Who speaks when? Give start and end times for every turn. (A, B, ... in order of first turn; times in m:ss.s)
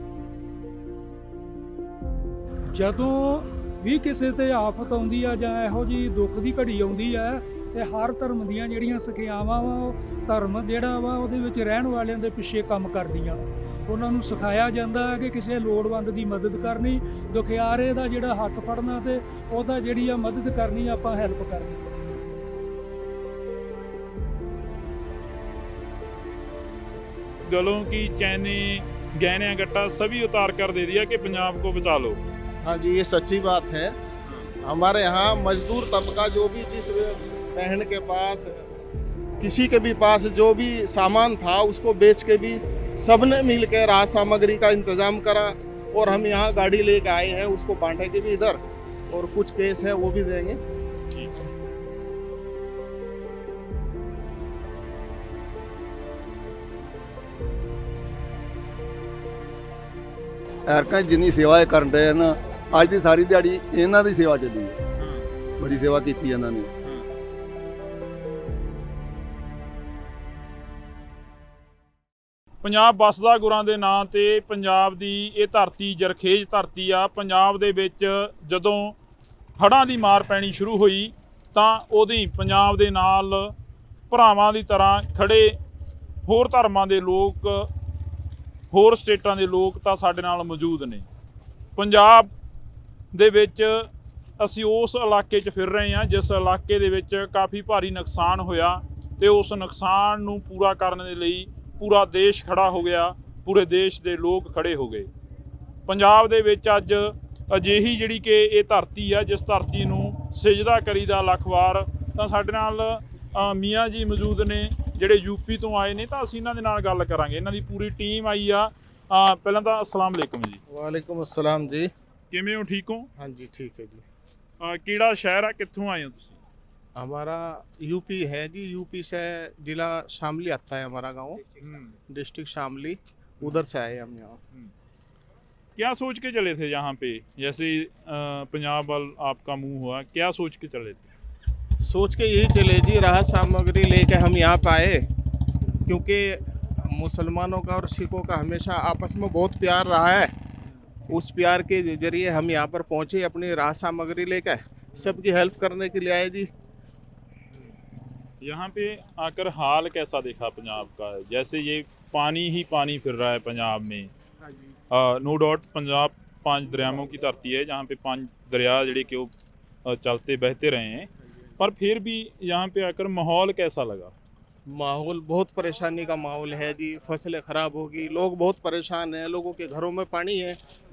0:02.7-0:21.8 A
0:27.4-0:32.2 B
0:32.6-0:34.0 C
0:34.6-0:38.6 C
0:39.4-0:50.6 C
1:00.7-1:04.8 D
1:05.0-1:05.3 B
1:05.6-1:06.7 D
1:06.8-1:07.1 B
1:12.6-1:19.0 B
1:19.6-1:23.5 B
1:24.1-1:25.6 B
1:26.2-1:27.7 B
1:28.7-1:31.0 B
1:31.8-1:32.3 B
1:33.1-1:33.9 B
1:34.4-1:45.1 B
1:45.9-2:00.6 B
2:00.7-2:01.9 C
2:02.3-2:03.1 B
2:03.2-2:04.0 C
2:04.6-2:06.4 B
2:07.0-2:11.4 C
2:11.6-2:12.0 B
2:12.1-2:14.4 C
2:15.8-2:21.1 B
2:21.8-2:25.0 C
2:25.8-2:30.3 C
2:31.1-2:36.5 C
2:38.4-2:44.1 B
2:44.9-2:49.3 B
2:49.8-2:54.1 B
2:54.7-3:00.6 C